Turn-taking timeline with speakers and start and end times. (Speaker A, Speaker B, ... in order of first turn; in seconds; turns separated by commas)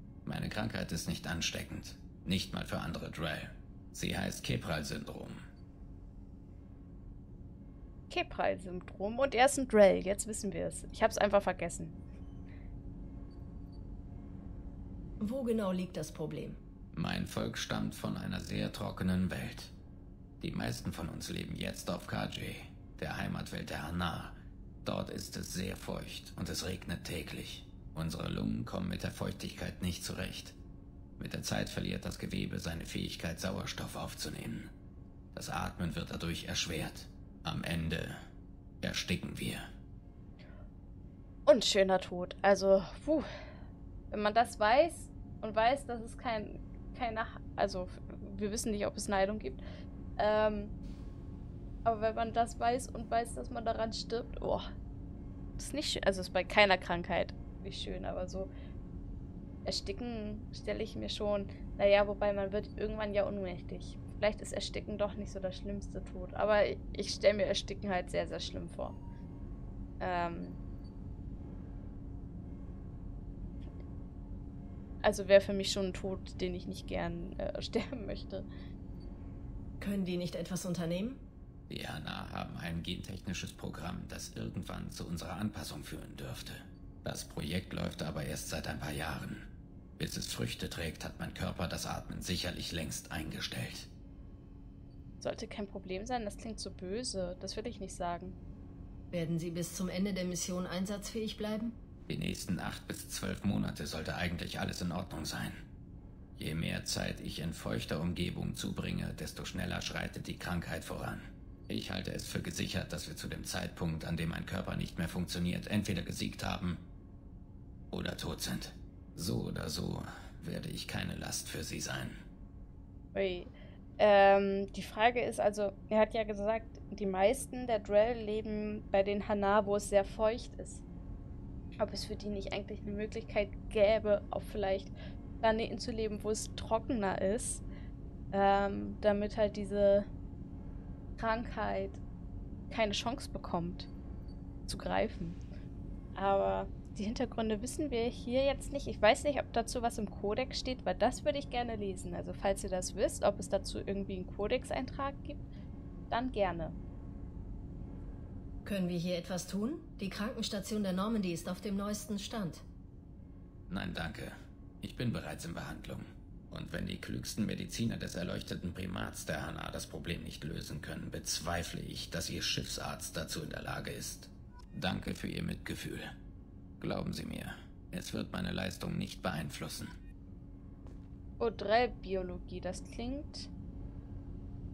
Speaker A: 0.2-5.4, Speaker B: 8.1-11.9, Speaker C: 15.2-16.6, Speaker A: 16.9-19.7, Speaker A: 20.4-30.6, Speaker A: 31.2-34.7, Speaker A: 35.3-38.2, Speaker A: 38.8-39.6, Speaker B: 41.5-43.3, Speaker B: 44.1-49.6, Speaker B: 50.2-50.7, Speaker B: 51.8-54.6, Speaker B: 55.6-58.5, Speaker B: 59.6-69.0, Speaker B: 70.0-70.6, Speaker B: 75.0-78.5, Speaker C: 79.8-81.2, Speaker A: 81.7-89.5, Speaker A: 90.0-93.9, Speaker B: 95.2-98.3, Speaker C: 99.1-101.8, Speaker A: 102.1-105.6, Speaker A: 106.4-116.8, Speaker A: 117.9-122.2, Speaker B: 123.1-130.8, Speaker B: 131.8-137.6, Speaker B: 138.3-140.1, Speaker B: 141.2-142.0, Speaker B: 142.7-143.9, Speaker B: 144.7-145.4, Speaker B: 146.1-155.4, Speaker B: 156.1-156.8, Speaker C: 158.6-162.6, Speaker A: 163.7-176.1, Speaker A: 176.8-179.9, Speaker B: 181.4-183.5